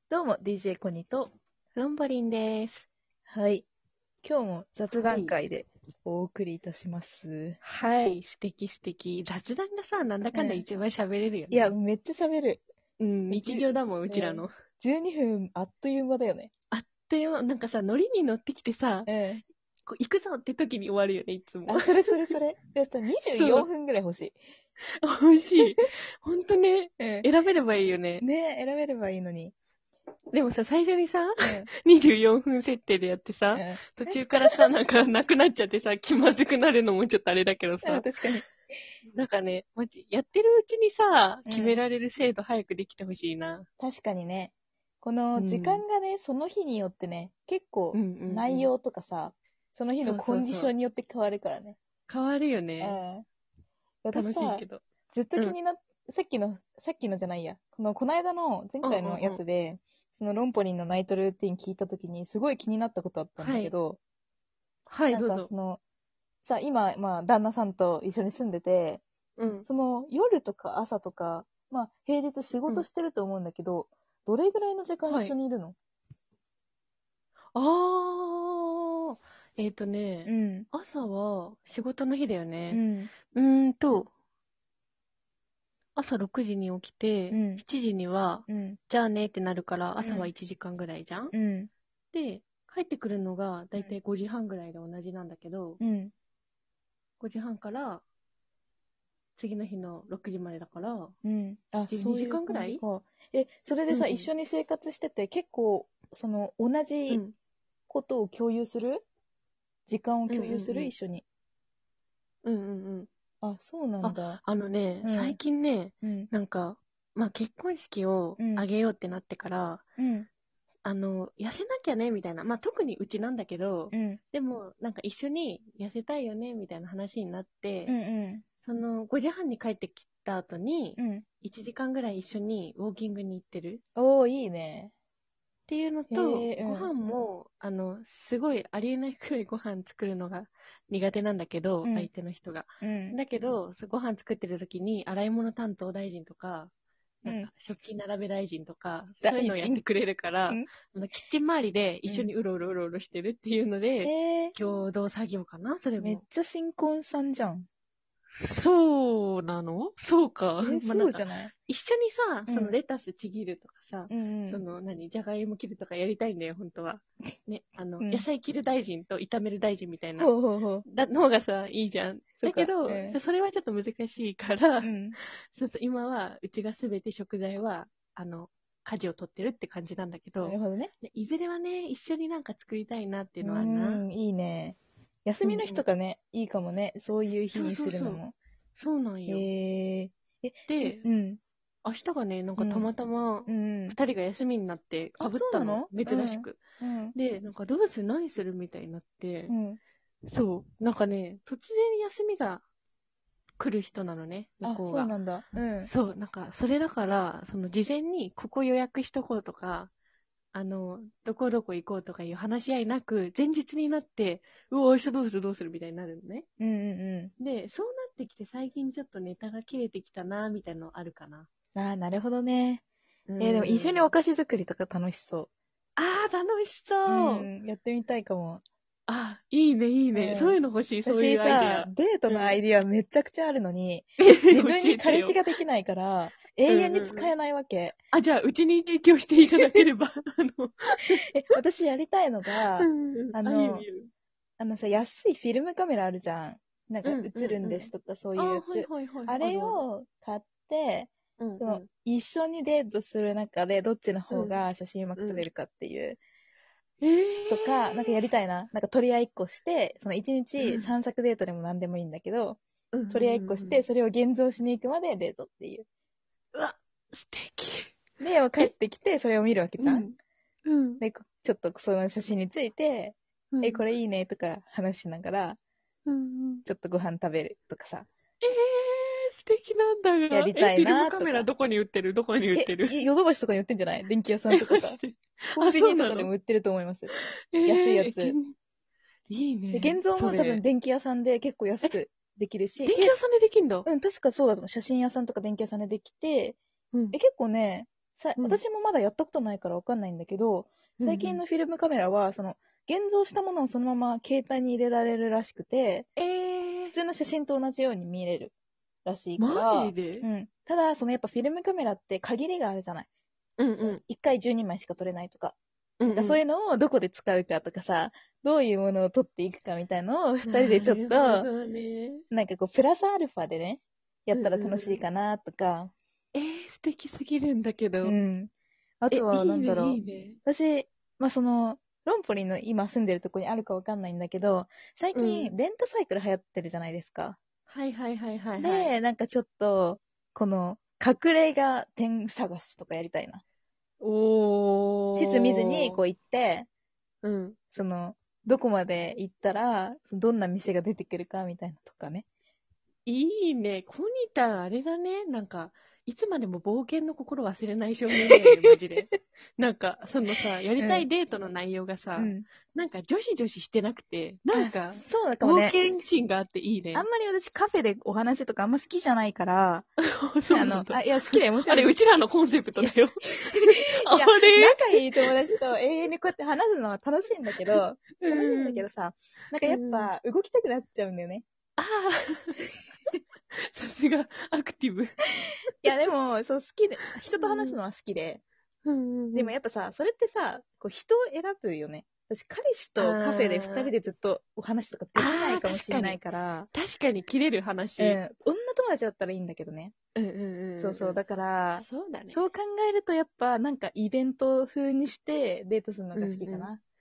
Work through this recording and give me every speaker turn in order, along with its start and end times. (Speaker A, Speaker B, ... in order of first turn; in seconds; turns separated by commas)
Speaker A: 0.1-1.3, Speaker B: 1.8-2.9, Speaker A: 3.3-3.7, Speaker A: 4.2-7.6, Speaker B: 4.9-5.4, Speaker B: 7.6-11.7, Speaker A: 10.3-10.7, Speaker A: 11.5-12.6, Speaker B: 13.0-14.5, Speaker A: 13.3-16.5, Speaker B: 16.7-19.1, Speaker A: 19.1-19.4, Speaker B: 19.9-22.3, Speaker A: 21.7-24.4, Speaker B: 23.3-23.7, Speaker B: 25.0-28.2, Speaker A: 27.0-27.3, Speaker A: 28.2-29.5, Speaker B: 30.3-38.1, Speaker A: 31.4-31.7, Speaker A: 33.5-34.2, Speaker A: 37.8-38.5, Speaker B: 39.1-43.7, Speaker A: 41.5-41.8, Speaker A: 43.8-51.8, Speaker B: 45.4-45.8, Speaker B: 47.9-48.7, Speaker B: 50.0-50.7, Speaker B: 52.1-53.0, Speaker A: 52.8-53.2, Speaker A: 54.0-64.0, Speaker B: 54.1-54.8, Speaker B: 58.8-59.4, Speaker B: 63.4-63.7, Speaker B: 64.9-65.5, Speaker A: 65.1-65.8, Speaker A: 66.4-69.0, Speaker B: 69.4-69.7, Speaker A: 69.7-75.8, Speaker B: 75.1-75.3, Speaker B: 77.5-84.1, Speaker A: 80.3-80.7, Speaker A: 82.7-83.1, Speaker B: 86.0-91.3, Speaker A: 87.3-87.6, Speaker A: 88.5-88.8, Speaker A: 90.0-90.3, Speaker A: 91.3-91.7, Speaker B: 92.1-95.8, Speaker A: 95.8-96.1, Speaker B: 97.2-98.0, Speaker B: 99.4-101.2, Speaker A: 101.2-107.2, Speaker B: 101.9-102.8, Speaker B: 103.9-104.3, Speaker B: 107.1-107.3, Speaker A: 107.9-109.0, Speaker A: 109.9-111.2, Speaker B: 110.3-110.9, Speaker B: 112.5-113.1, Speaker A: 113.4-114.4, Speaker B: 114.0-119.8, Speaker A: 115.0-115.4, Speaker A: 116.0-116.3, Speaker A: 118.4-118.7, Speaker A: 120.0-120.3, Speaker B: 120.8-128.0, Speaker A: 123.9-124.2, Speaker A: 127.9-128.4, Speaker B: 128.6-133.8, Speaker A: 131.0-131.2, Speaker A: 134.0-134.9, Speaker B: 135.7-146.7, Speaker A: 136.1-136.9, Speaker A: 141.8-142.1, Speaker A: 142.8-143.2, Speaker A: 147.2-147.5, Speaker B: 147.2-156.2, Speaker A: 149.2-149.8, Speaker A: 154.0-154.6, Speaker A: 156.0-157.7, Speaker B: 158.3-170.3, Speaker A: 160.6-161.5, Speaker A: 162.5-162.8, Speaker A: 164.1-164.6, Speaker A: 168.0-168.3, Speaker A: 170.2-170.8, Speaker B: 170.9-184.0, Speaker A: 172.4-173.2, Speaker A: 174.8-175.2, Speaker A: 180.4-180.9, Speaker A: 183.4-188.4, Speaker B: 185.4-185.8, Speaker B: 187.5-188.2, Speaker B: 188.8-189.5, Speaker A: 189.3-191.4, Speaker B: 190.7-191.0, Speaker B: 191.8-196.6, Speaker A: 192.6-192.9, Speaker A: 193.5-194.0, Speaker A: 195.2-197.2, Speaker B: 197.2-199.5, Speaker A: 199.5-199.8, Speaker B: 200.3-202.6, Speaker B: 203.6-205.1, Speaker A: 204.6-205.9, Speaker B: 205.8-209.9, Speaker B: 210.5-216.5, Speaker A: 216.6-217.3, Speaker B: 217.4-221.5, Speaker A: 221.8-222.8, Speaker B: 223.3-224.1, Speaker A: 223.4-225.5, Speaker B: 226.0-227.5, Speaker A: 227.1-228.6, Speaker B: 229.1-232.6, Speaker A: 230.1-238.0, Speaker B: 234.2-235.4, Speaker B: 236.7-237.3, Speaker B: 238.1-241.3, Speaker A: 241.3-243.9, Speaker B: 242.8-244.1, Speaker A: 244.6-256.2, Speaker B: 247.0-249.8, Speaker B: 251.4-251.9, Speaker B: 254.3-254.6, Speaker B: 255.2-255.4, Speaker B: 257.0-258.2, Speaker A: 257.5-265.9, Speaker B: 260.6-260.9, Speaker B: 262.9-263.8, Speaker B: 266.5-267.9, Speaker A: 268.2-270.1, Speaker B: 269.8-270.1, Speaker B: 270.7-271.0, Speaker A: 271.0-275.6, Speaker B: 273.5-273.8, Speaker B: 276.1-276.7, Speaker A: 276.7-278.1, Speaker B: 278.4-283.0, Speaker A: 280.3-281.5, Speaker A: 282.6-285.0, Speaker B: 284.5-286.3, Speaker A: 285.6-287.1, Speaker B: 287.1-288.5, Speaker A: 287.6-288.4, Speaker B: 289.3-290.6, Speaker A: 289.7-293.2, Speaker B: 292.9-293.9, Speaker A: 293.9-296.6, Speaker A: 297.1-306.1, Speaker B: 301.0-301.4, Speaker B: 306.2-307.0, Speaker A: 306.9-308.5, Speaker A: 309.1-313.1, Speaker B: 309.4-310.3, Speaker B: 313.6-314.0, Speaker A: 313.8-315.6, Speaker B: 316.0-316.4, Speaker A: 316.1-321.5, Speaker B: 320.4-322.2, Speaker A: 322.3-325.9, Speaker B: 324.3-325.0, Speaker B: 326.4-328.2, Speaker A: 328.0-337.4, Speaker B: 329.1-330.4, Speaker B: 335.1-335.5, Speaker B: 337.7-338.9, Speaker A: 338.6-343.4, Speaker B: 344.0-346.0, Speaker A: 345.1-346.7, Speaker B: 347.2-347.6, Speaker A: 347.7-352.3, Speaker B: 353.1-367.1, Speaker A: 358.2-358.8, Speaker A: 360.8-361.1, Speaker A: 362.2-362.5, Speaker A: 364.5-365.8, Speaker A: 366.9-369.9, Speaker B: 370.2-375.6, Speaker A: 370.5-371.9, Speaker A: 372.8-381.4, Speaker B: 377.6-378.9, Speaker B: 379.7-380.1, Speaker B: 381.8-382.6, Speaker B: 383.5-385.9, Speaker A: 385.8-388.4, Speaker B: 387.4-387.8, Speaker B: 388.9-389.6, Speaker A: 389.4-396.7, Speaker B: 393.0-393.9, Speaker B: 395.1-396.2, Speaker B: 396.7-398.2, Speaker A: 398.0-399.9, Speaker B: 400.2-401.2, Speaker A: 400.8-406.8, Speaker B: 401.8-402.4, Speaker B: 406.1-406.7